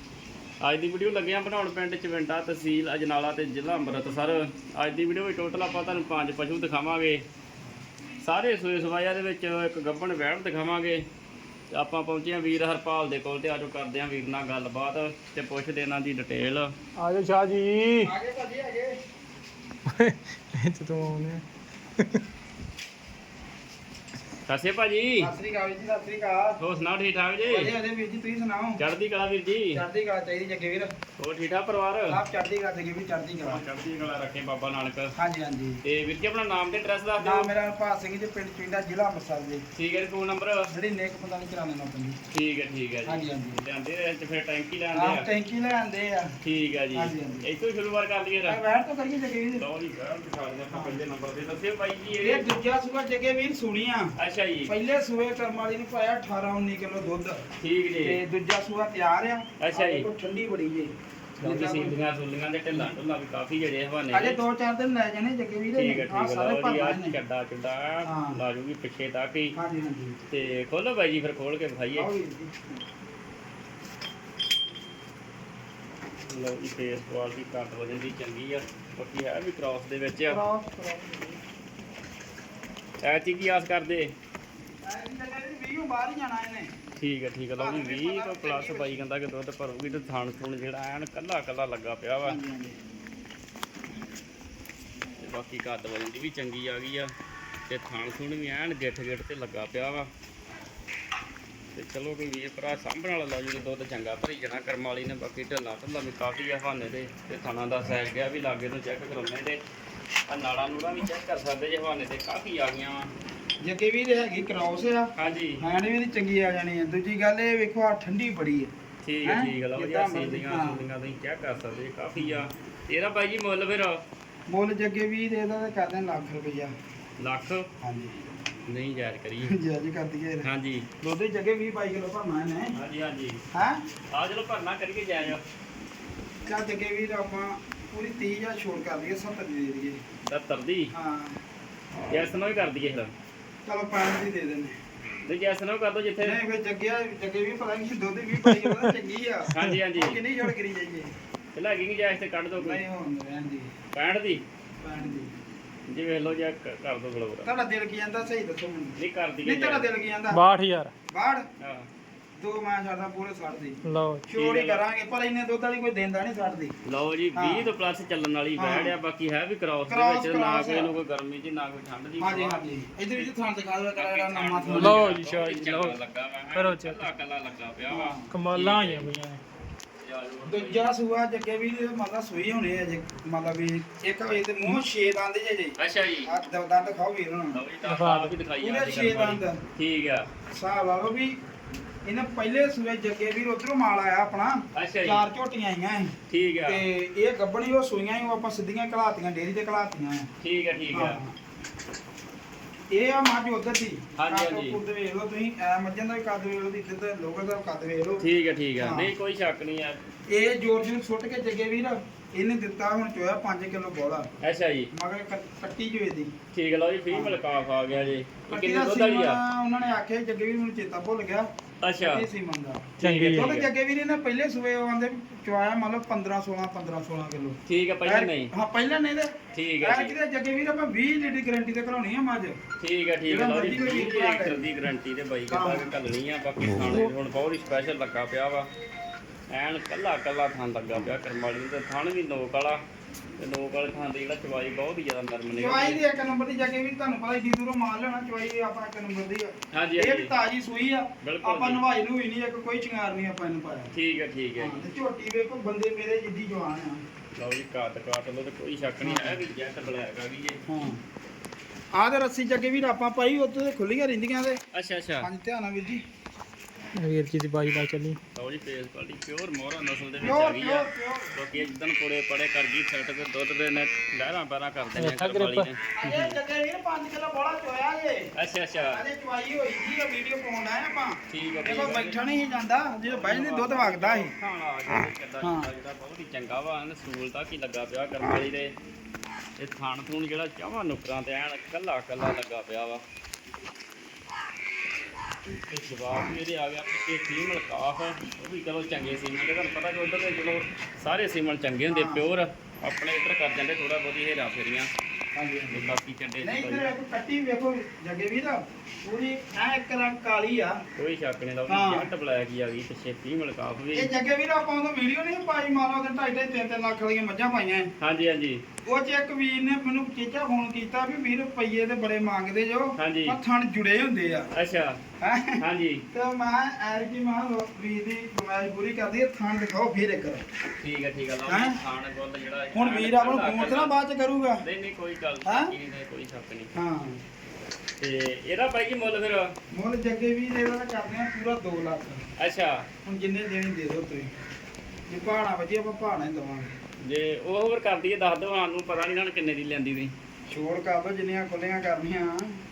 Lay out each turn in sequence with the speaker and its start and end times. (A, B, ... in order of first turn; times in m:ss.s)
0:00.6-0:07.2 A
0:08.2-0:11.1 A
0:11.7-0:16.7 A
0:17.0-0:18.1 B
0:18.0-0:19.0 C
0:19.9-0:21.4 B
0:24.5-0:25.3 A
0:25.2-0:26.6 C
0:26.6-0:27.7 A
0:27.5-0:28.8 C
0:28.8-0:29.8 A
0:29.7-0:30.9 C
0:31.2-0:32.2 A
0:32.1-0:33.6 C
0:33.5-0:35.1 A
0:35.2-0:35.8 C
0:35.8-0:37.5 A
0:37.2-0:39.6 C
0:39.7-0:40.7 A
0:40.7-0:42.2 C
0:42.3-0:45.3 A
0:43.1-0:43.6 C
0:44.9-0:46.4 C
0:46.4-0:48.6 A
0:46.9-0:47.4 C
0:48.5-0:49.7 C
0:49.6-0:52.5 A
0:50.7-0:51.0 C
0:52.2-0:54.1 C
0:54.2-0:54.7 A
0:54.7-0:57.4 C
0:57.6-0:58.2 A
0:58.0-1:02.0 C
0:59.6-1:00.1 A
1:01.4-1:04.4 A
1:04.1-1:07.2 C
1:05.8-1:09.6 A
1:08.0-1:08.4 C
1:09.6-1:10.2 C
1:10.3-1:12.1 A
1:12.0-1:12.5 C
1:16.3-1:20.4 A
1:20.3-1:21.4 C
1:23.0-1:24.1 A
1:24.9-1:26.7 C
1:27.0-1:32.4 A
1:27.6-1:29.0 C
1:32.2-1:32.8 C
1:35.2-1:37.1 A
1:37.7-1:40.1 A
1:41.8-1:49.6 A
1:50.3-1:53.1 A
1:53.6-1:58.7 C
1:55.2-1:55.6 A
1:59.0-2:04.0 A
1:59.2-2:00.8 C
2:02.2-2:02.4 C
2:04.5-2:06.7 C
2:07.2-2:07.7 A
2:07.8-2:08.2 C
2:08.7-2:09.6 A
2:09.4-2:10.5 C
2:10.4-2:10.9 A
2:11.0-2:12.8 C
2:12.8-2:13.4 A
2:13.5-2:13.8 C
2:14.1-2:15.4 A
2:16.5-2:20.0 C
2:20.3-2:20.9 A
2:20.9-2:21.4 C
2:22.1-2:23.1 A
2:23.6-2:24.8 C
2:25.3-2:26.4 A
2:26.2-2:31.1 C
2:29.5-2:30.2 A
2:31.5-2:32.8 A
2:32.6-2:33.7 C
2:33.9-2:34.4 A
2:34.8-2:35.3 C
2:35.9-2:37.5 A
2:37.4-2:40.4 C
2:39.0-2:39.9 A
2:40.3-2:40.9 B
2:41.1-2:41.5 C
2:41.6-2:41.9 A
2:42.4-2:46.7 C
2:43.8-2:44.2 B
2:44.4-2:44.8 A
2:46.8-2:52.6 A
2:47.4-2:47.7 C
2:48.6-2:49.0 C
2:49.9-2:50.9 C
2:52.2-2:55.0 C
2:54.0-2:59.1 A
2:54.7-2:56.0 B
2:56.5-2:57.1 B
2:57.9-2:58.3 C
2:58.3-2:59.4 B
3:00.0-3:00.9 A
3:00.4-3:07.6 C
3:05.8-3:06.3 A
3:07.5-3:10.3 A
3:07.8-3:08.3 B
3:08.6-3:09.6 C
3:10.5-3:11.4 C
3:12.0-3:16.1 C
3:14.7-3:15.2 A
3:16.3-3:16.8 A
3:16.7-3:20.3 C
3:20.4-3:21.2 A
3:20.9-3:21.3 C
3:22.9-3:28.2 C
3:24.2-3:24.8 A
3:28.2-3:30.0 A
3:28.8-3:29.1 C
3:30.3-3:34.3 C
3:34.4-3:34.9 A
3:34.9-3:36.3 C
3:36.5-3:39.4 A
3:37.1-3:41.5 C
3:41.8-3:42.3 A
3:42.0-3:52.6 C
3:43.0-3:43.7 A
3:43.0-3:43.5 B
3:47.7-3:48.5 A
3:49.5-3:50.2 A
3:52.8-3:58.7 A
3:53.3-3:54.6 C
3:55.5-3:55.9 C
3:59.5-4:02.8 A
4:03.4-4:06.0 A
4:05.5-4:13.9 C
4:09.7-4:10.3 A
4:11.2-4:11.8 A
4:13.9-4:14.8 A
4:14.6-4:17.0 C
4:17.4-4:20.6 A
4:19.0-4:19.4 C
4:20.7-4:21.0 C
4:21.9-4:24.6 C
4:24.7-4:25.3 A
4:25.2-4:26.0 C
4:27.0-4:28.2 B
4:28.4-4:36.4 A
4:30.2-4:31.4 C
4:35.0-4:35.7 B
4:36.0-4:38.3 C
4:38.4-4:39.0 A
4:38.9-4:44.4 C
4:41.3-4:42.2 A
4:43.0-4:48.7 A
4:45.4-4:45.7 C
4:49.6-4:53.0 A
4:55.7-5:04.9 A
5:01.9-5:02.2 C
5:05.4-5:05.8 C
5:05.7-5:06.9 A
5:06.4-5:10.8 C
5:11.0-5:14.1 A
5:11.7-5:12.1 C
5:13.9-5:17.9 C
5:18.0-5:18.6 A
5:18.8-5:24.5 C
5:23.0-5:23.4 A
5:24.5-5:25.0 A
5:25.2-5:25.6 C
5:25.6-5:26.0 A
5:26.1-5:30.4 C
5:30.8-5:34.0 A
5:31.5-5:31.8 C
5:32.7-5:34.6 C
5:34.6-5:36.7 A
5:35.4-5:35.7 C
5:36.8-5:37.2 C
5:38.0-5:39.5 A
5:39.7-5:42.2 C
5:42.4-5:42.9 A
5:43.0-5:44.3 C
5:45.1-5:46.8 C
5:47.0-5:50.1 A
5:50.5-5:52.6 C